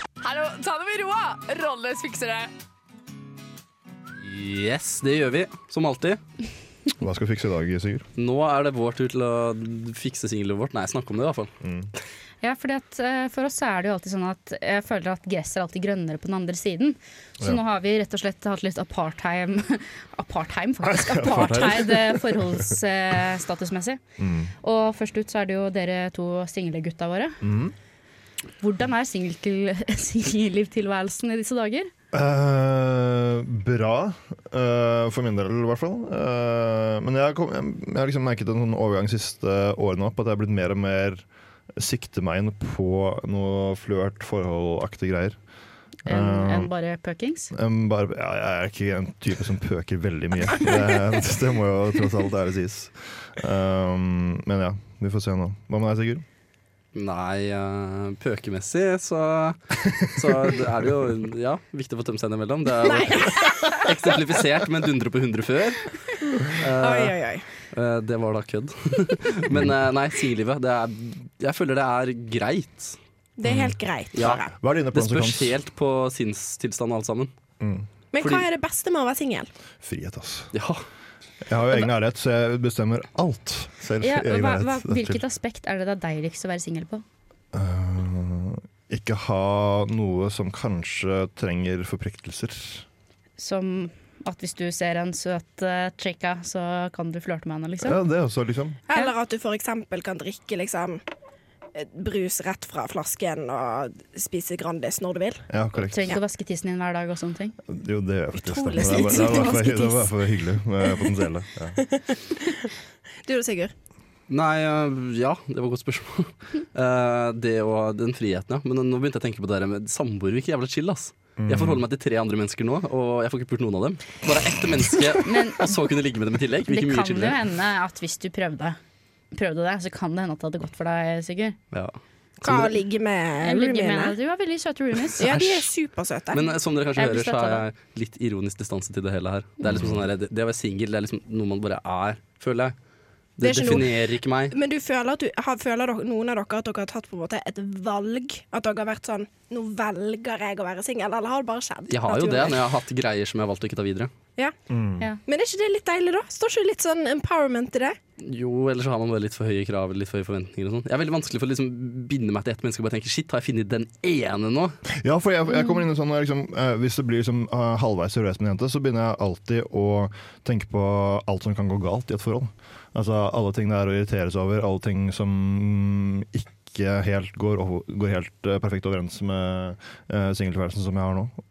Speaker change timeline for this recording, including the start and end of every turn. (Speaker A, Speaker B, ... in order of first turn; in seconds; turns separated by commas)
Speaker A: 0.2-2.5, Speaker B: 4.2-6.2, Speaker C: 7.0-8.1, Speaker B: 8.2-11.5, Speaker C: 11.6-11.9, Speaker D: 12.4-24.0, Speaker C: 20.8-22.7, Speaker C: 24.2-24.5, Speaker D: 24.6-27.4, Speaker C: 27.4-27.7, Speaker D: 28.6-31.9, Speaker C: 32.1-41.2, Speaker C: 41.8-45.4, Speaker C: 46.0-46.7, Speaker D: 46.0-47.5, Speaker C: 47.5-56.2, Speaker B: 56.9-66.0, Speaker E: 62.8-63.9, Speaker B: 66.5-67.2, Speaker E: 66.8-67.4, Speaker B: 67.7-73.0, Speaker E: 73.4-74.5, Speaker C: 73.4-75.5, Speaker B: 74.1-74.4, Speaker B: 74.9-77.3, Speaker C: 77.6-77.9, Speaker E: 78.1-79.5, Speaker B: 78.2-78.5, Speaker C: 79.8-80.5, Speaker B: 80.5-80.8, Speaker C: 81.4-85.2, Speaker D: 84.0-87.0, Speaker C: 87.5-92.8, Speaker D: 93.4-98.0, Speaker C: 97.8-98.8, Speaker E: 98.9-101.0, Speaker E: 101.7-105.5, Speaker C: 105.5-106.1, Speaker D: 105.8-107.5, Speaker C: 107.7-111.8, Speaker E: 108.4-110.1, Speaker E: 110.8-111.1, Speaker E: 111.8-112.7, Speaker E: 113.2-113.7, Speaker B: 114.3-127.4, Speaker C: 121.4-121.8, Speaker D: 125.2-125.7, Speaker D: 126.7-128.8, Speaker D: 129.3-131.6, Speaker B: 131.7-132.7, Speaker E: 132.4-134.1, Speaker D: 133.4-135.3, Speaker E: 135.2-136.5, Speaker B: 135.2-135.7, Speaker B: 136.3-142.7, Speaker D: 136.9-137.6, Speaker C: 139.7-140.0, Speaker B: 143.4-144.5, Speaker E: 143.4-152.6, Speaker B: 151.9-154.1, Speaker C: 154.7-155.1, Speaker E: 155.2-158.0, Speaker B: 158.2-164.8, Speaker C: 164.9-181.4